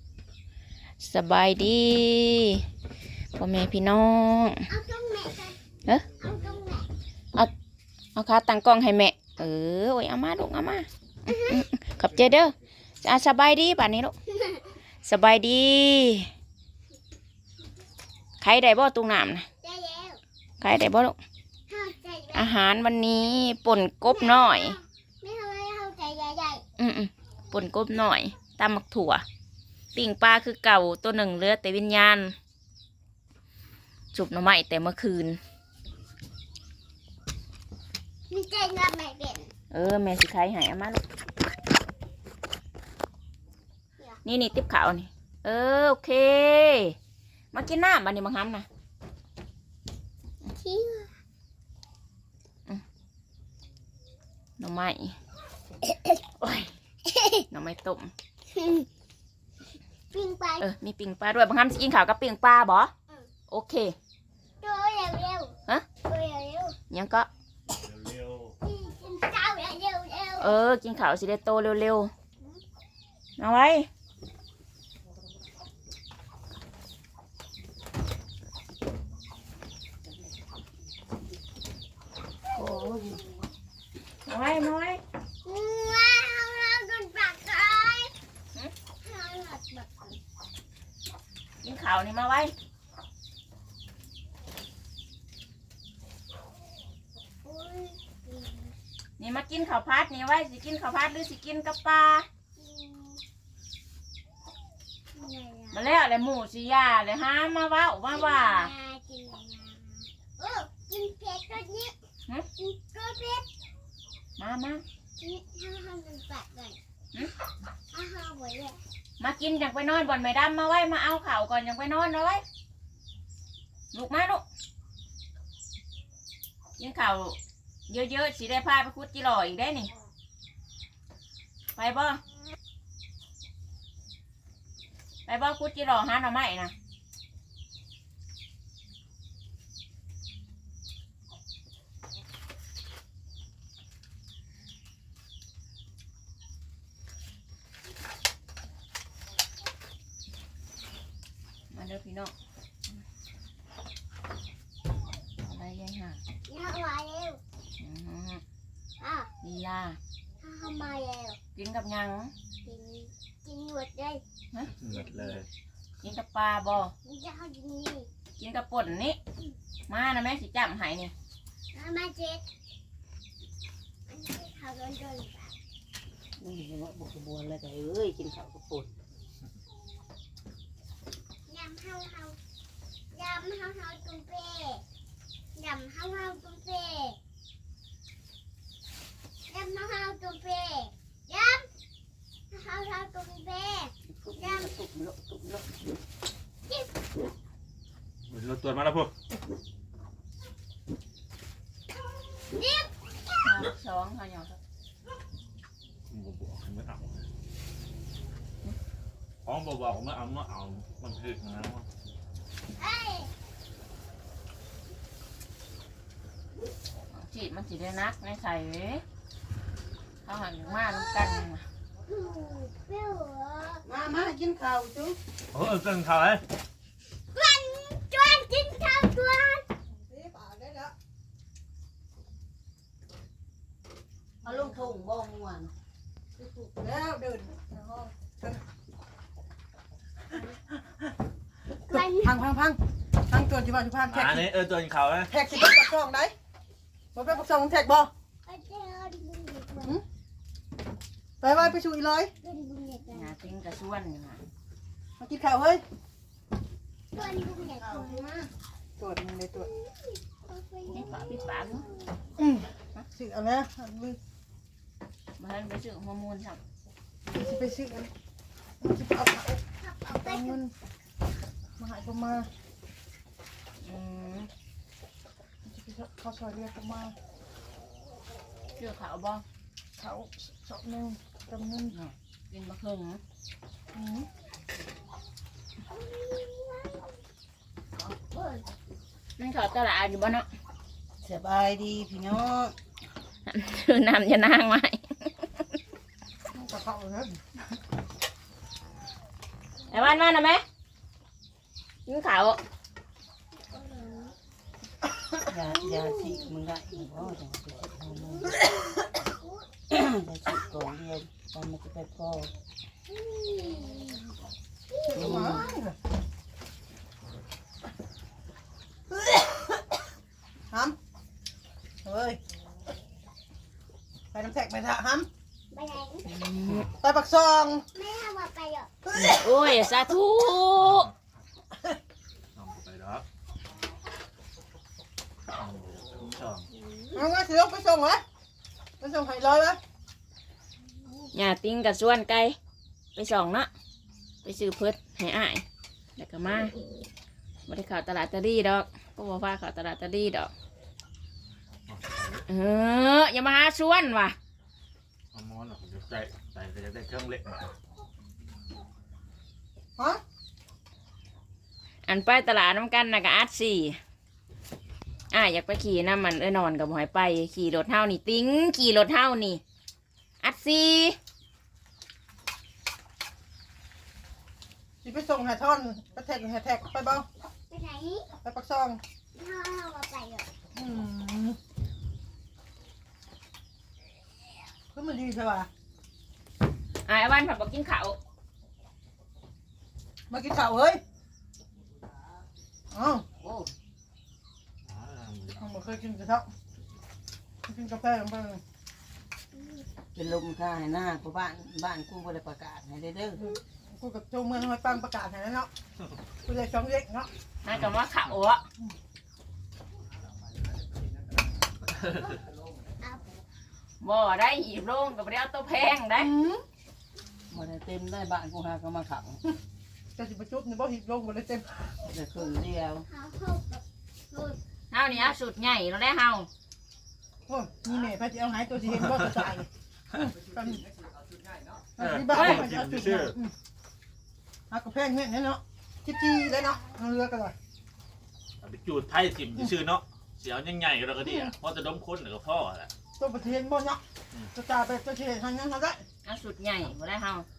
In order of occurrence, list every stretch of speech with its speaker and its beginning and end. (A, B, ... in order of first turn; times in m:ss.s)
0:01.0-0:02.6 A
0:03.4-0:04.6 A
0:04.7-0:05.6 B
0:06.2-0:06.9 B
0:08.2-0:14.1 A
0:11.3-0:11.6 B
0:14.3-0:14.7 B
0:15.0-0:16.3 A
0:18.4-0:19.5 A
0:19.6-0:20.2 B
0:20.6-0:21.2 A
0:21.7-0:22.6 B
0:22.3-0:24.8 A
0:24.0-0:26.6 B
0:26.8-0:29.2 A
0:30.0-0:32.4 A
0:34.1-0:35.4 A
0:38.3-0:39.5 B
0:39.7-0:41.0 A
0:44.2-0:47.0 A
0:47.5-0:48.7 A
0:50.5-0:51.1 B
0:54.6-0:55.2 A
0:56.4-0:56.7 A
0:57.1-0:57.4 B
0:57.5-0:58.1 A
0:58.5-0:58.9 B
1:00.1-1:00.7 B
1:00.6-1:02.9 A
1:03.5-1:04.0 A
1:04.6-1:06.8 B
1:06.9-1:07.3 A
1:07.7-1:08.6 C
1:08.6-1:10.6 B
1:10.4-1:12.1 A
1:13.4-1:13.9 A
1:22.5-1:23.2 D
1:22.6-1:23.1 B
1:24.3-1:25.0 A
1:25.4-1:28.1 B
1:29.0-1:30.2 B
1:31.6-1:32.5 A
1:37.4-1:38.7 B
1:39.2-1:42.3 A
1:42.6-1:43.2 B
1:45.1-1:45.8 B
1:45.7-1:48.7 A
1:48.1-1:51.9 B
1:52.6-1:53.5 B
1:54.4-1:54.8 A
1:55.2-1:56.8 B
1:57.9-1:58.8 B
1:59.2-2:02.4 A
2:03.9-2:04.4 A
2:06.8-2:07.4 A
2:07.9-2:09.9 A
2:11.8-2:12.2 A
2:15.3-2:16.7 A
2:31.7-2:32.3 A
2:35.4-2:36.2 A
2:36.5-2:37.4 B
2:37.8-2:38.4 A
2:39.0-2:39.3 B
2:39.4-2:40.0 A
2:40.4-2:41.4 B
2:41.6-2:42.3 A
2:42.6-2:44.2 B
2:44.8-2:45.5 C
2:46.0-2:46.9 A
2:47.0-2:48.1 B
2:48.4-2:49.2 A
2:49.9-2:51.1 A
2:51.7-2:52.4 B
2:54.1-2:55.5 B
2:56.4-2:58.9 D
3:01.5-3:02.4 B
3:03.1-3:04.8 B
3:05.6-3:07.2 B
3:09.5-3:11.7 B
3:12.5-3:14.8 B
3:14.2-3:15.7 D
3:16.7-3:17.0 B
3:18.3-3:19.1 C
3:22.5-3:23.4 B
3:23.4-3:24.5 A
3:26.1-3:27.3 C
3:29.4-3:31.9 C
3:32.8-3:33.3 B
3:37.1-3:39.0 A
3:40.2-3:41.6 A
3:40.7-3:41.4 B
3:42.1-3:43.8 B
3:43.8-3:45.2 D
3:45.5-3:46.4 C
3:47.3-3:49.7 B
3:49.9-3:50.9 E
3:54.4-3:55.7 D
3:56.4-3:58.6 E
4:01.9-4:02.4 B
4:01.9-4:04.5 E
4:04.1-4:05.3 C
4:05.3-4:06.3 E
4:07.2-4:08.1 E
4:08.4-4:10.0 B
4:11.4-4:12.3 E
4:12.4-4:13.3 B
4:13.1-4:14.4 A
4:15.2-4:15.8 E
4:17.1-4:18.3 B
4:17.8-4:18.2 E
4:19.0-4:19.7 E
4:19.6-4:22.1 B
4:20.9-4:21.8 A
4:22.4-4:24.2 E
4:25.4-4:26.6 A
4:27.3-4:28.1 E
4:28.8-4:30.7 E
4:29.8-4:30.6 B
4:31.8-4:32.5 E
4:33.8-4:34.5 A
4:35.6-4:37.2 E
4:38.8-4:39.4 A
4:40.0-4:42.0 E
4:41.9-4:43.2 A
4:43.9-4:44.3 E
4:45.9-4:47.1 B
4:48.1-4:48.6 B
4:49.4-4:50.5 A
4:51.2-4:52.8 D
4:53.5-4:55.6 A
4:56.5-4:57.4 E
4:59.9-5:00.6 A
5:02.1-5:02.6 A
5:03.6-5:04.3 B
5:05.5-5:08.6 D
5:05.6-5:06.5 B
5:08.3-5:09.7 B
5:09.9-5:12.5 D
5:13.1-5:14.2 B
5:14.9-5:15.8 B
5:15.0-5:16.0 E
5:15.2-5:15.6 D
5:20.7-5:21.0 E
5:22.0-5:22.4 E
5:24.3-5:25.3 E
5:25.7-5:26.3 B
5:26.3-5:26.9 A
5:27.0-5:27.9 E
5:28.0-5:28.9 B
5:29.2-5:31.1 A
5:30.8-5:31.1 C
5:32.6-5:33.2 C
5:35.6-5:36.7 C
5:36.8-5:37.2 B
5:37.1-5:38.2 E
5:39.0-5:39.8 E
5:41.3-5:42.6 A
5:43.2-5:43.7 A
5:44.4-5:45.6 A
5:46.2-5:46.7 A
5:47.7-5:50.5 A
5:51.9-5:52.5 C
5:52.5-5:54.4 A
5:55.3-5:57.8 C
6:02.0-6:04.0 A
6:05.3-6:09.6 A
6:10.4-6:11.2 A
6:15.0-6:17.3 E
6:17.7-6:18.3 B
6:18.4-6:19.0 E
6:19.3-6:20.5 B
6:20.8-6:21.6 E
6:24.9-6:25.7 E
6:27.0-6:28.2 A
6:30.3-6:31.0 E
6:32.9-6:33.2 E
6:34.8-6:35.6 C
6:35.5-6:36.5 E
6:37.7-6:38.6 E
6:39.5-6:39.8 B
6:40.2-6:43.4 D
6:43.4-6:45.7 E
6:46.4-6:47.3 E
6:47.6-6:48.6 A
6:53.0-6:53.4 B
6:54.0-6:56.3 A
6:56.2-6:56.6 E
6:57.5-6:59.4 D
7:00.2-7:01.8 E
7:02.0-7:03.1 D
7:03.1-7:04.6 B
7:04.9-7:06.5 A
7:07.5-7:10.8 E
7:12.0-7:13.5 E
7:12.0-7:13.4 C
7:12.3-7:12.7 A
7:14.7-7:17.5 E
7:18.6-7:22.9 C
7:21.2-7:21.5 E
7:23.2-7:24.0 E
7:24.5-7:26.0 E
7:26.2-7:27.5 A